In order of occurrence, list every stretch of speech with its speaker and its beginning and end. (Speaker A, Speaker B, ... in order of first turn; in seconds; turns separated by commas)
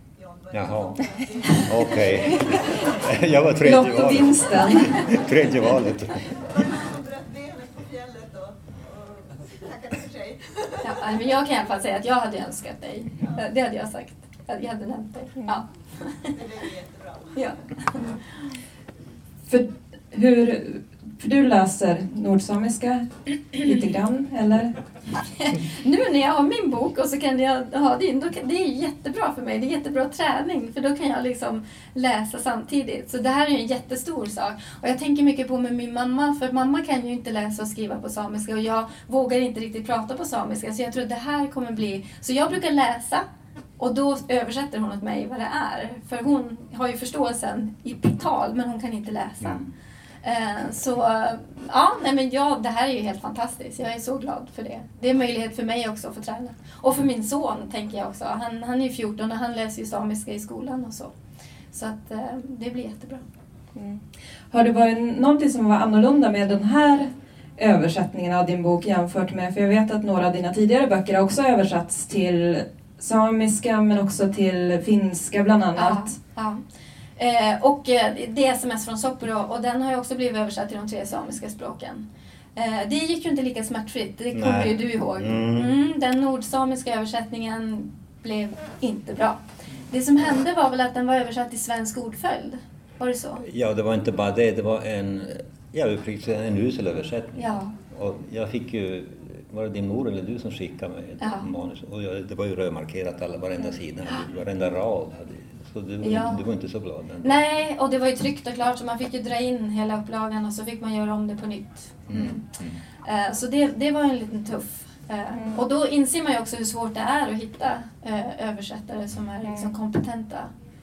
Speaker A: 0.1-2.9, Speaker B: 0.5-1.0, Speaker B: 1.5-6.3, Speaker C: 3.6-5.0, Speaker A: 6.3-11.3, Speaker D: 10.8-16.3, Speaker A: 16.3-17.4, Speaker D: 17.4-18.2, Speaker C: 19.5-24.8, Speaker D: 25.4-43.2, Speaker D: 43.8-49.6, Speaker D: 50.2-61.1, Speaker D: 61.7-63.2, Speaker C: 64.5-76.1, Speaker D: 75.8-76.6, Speaker D: 77.2-82.0, Speaker D: 82.5-93.4, Speaker B: 84.3-85.8, Speaker B: 93.4-107.4, Speaker D: 97.4-97.7, Speaker D: 101.2-101.5, Speaker D: 106.0-106.4, Speaker D: 107.2-112.4, Speaker B: 112.1-112.8, Speaker D: 113.0-120.5